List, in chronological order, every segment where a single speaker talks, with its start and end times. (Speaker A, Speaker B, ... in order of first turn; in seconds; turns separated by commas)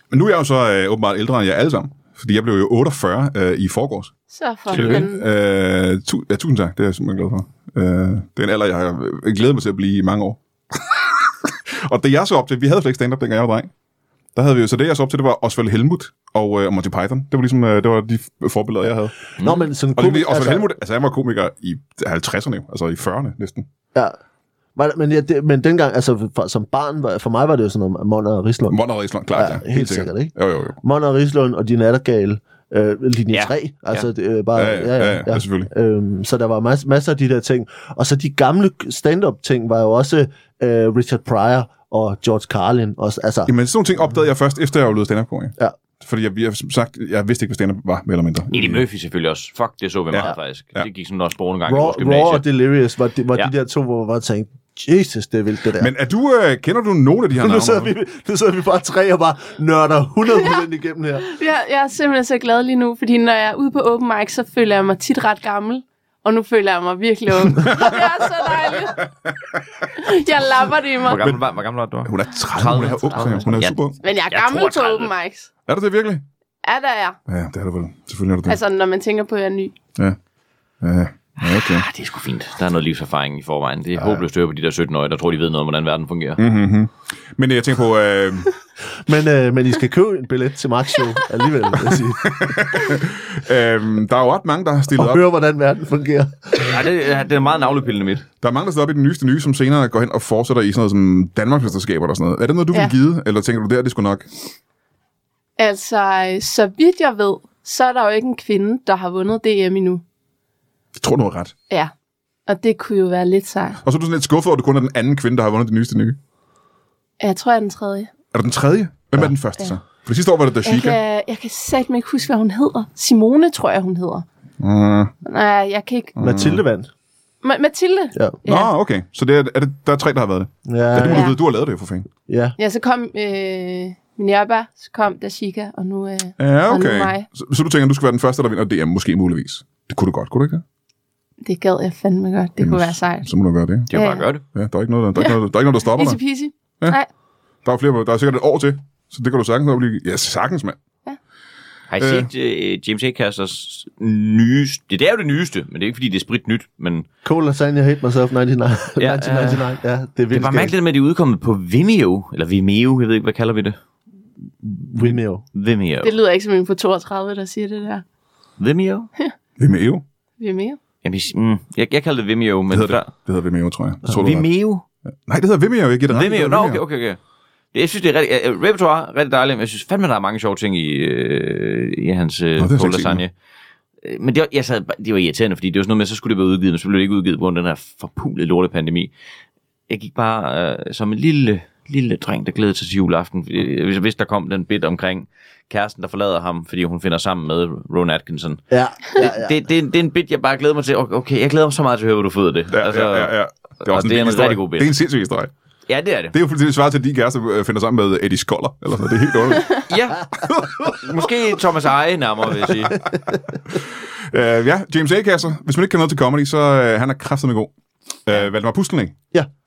Speaker A: 0.1-4.1, Speaker B: 4.3-5.2, Speaker A: 4.7-13.7, Speaker C: 4.7-5.0, Speaker A: 14.3-19.1, Speaker D: 19.4-20.7, Speaker C: 19.4-19.7, Speaker A: 19.9-23.7, Speaker D: 24.8-28.8, Speaker A: 28.7-30.8, Speaker D: 29.3-43.5, Speaker C: 33.3-34.0, Speaker A: 34.5-35.7, Speaker A: 43.5-48.8, Speaker C: 48.5-52.4, Speaker A: 50.1-50.9, Speaker D: 51.6-55.9, Speaker A: 55.8-57.9, Speaker D: 57.4-61.3, Speaker B: 61.3-69.1, Speaker A: 67.6-68.0, Speaker B: 69.9-71.2, Speaker C: 71.0-75.1, Speaker A: 72.0-74.0, Speaker B: 74.0-75.5, Speaker A: 75.7-76.2, Speaker B: 76.6-77.2, Speaker A: 77.3-78.6, Speaker B: 78.5-79.8, Speaker A: 80.8-81.8, Speaker C: 81.4-86.4, Speaker A: 86.4-88.5, Speaker D: 89.0-92.8, Speaker A: 92.2-95.2, Speaker D: 94.9-96.8, Speaker C: 96.6-98.2, Speaker A: 98.4-104.3, Speaker B: 105.6-110.0, Speaker A: 111.0-111.5, Speaker B: 112.5-113.8, Speaker A: 113.8-116.2, Speaker B: 117.2-118.1, Speaker A: 118.3-121.0, Speaker B: 120.6-124.2, Speaker A: 124.6-125.1, Speaker B: 125.2-126.2, Speaker A: 126.2-126.6, Speaker D: 126.2-126.9, Speaker B: 127.4-128.7, Speaker A: 128.4-132.1, Speaker D: 130.7-131.3, Speaker B: 131.1-131.3, Speaker D: 132.3-132.6, Speaker B: 132.6-137.3, Speaker A: 136.4-140.6, Speaker B: 141.4-143.3, Speaker A: 142.6-143.9, Speaker C: 143.9-144.4, Speaker B: 143.9-144.2, Speaker A: 144.5-146.2, Speaker B: 145.9-147.1, Speaker A: 147.6-150.8, Speaker C: 151.9-157.1, Speaker A: 152.0-152.3, Speaker D: 157.2-160.7, Speaker C: 159.0-159.7, Speaker C: 160.3-163.8, Speaker D: 164.6-165.4, Speaker C: 165.5-166.1, Speaker B: 166.0-168.0, Speaker C: 168.6-169.1, Speaker A: 169.6-170.0, Speaker B: 170.4-170.8, Speaker C: 171.0-173.1, Speaker A: 172.7-174.5, Speaker C: 174.1-174.8, Speaker A: 175.3-176.8, Speaker C: 176.1-177.2, Speaker C: 177.7-183.3, Speaker A: 182.6-183.2, Speaker C: 184.0-189.1, Speaker C: 189.9-204.9, Speaker D: 198.7-199.6, Speaker A: 202.7-205.5, Speaker C: 205.9-206.3, Speaker A: 206.3-209.8, Speaker C: 209.9-210.3, Speaker A: 210.4-211.0, Speaker C: 210.8-213.0, Speaker A: 213.7-217.7, Speaker A: 218.2-219.2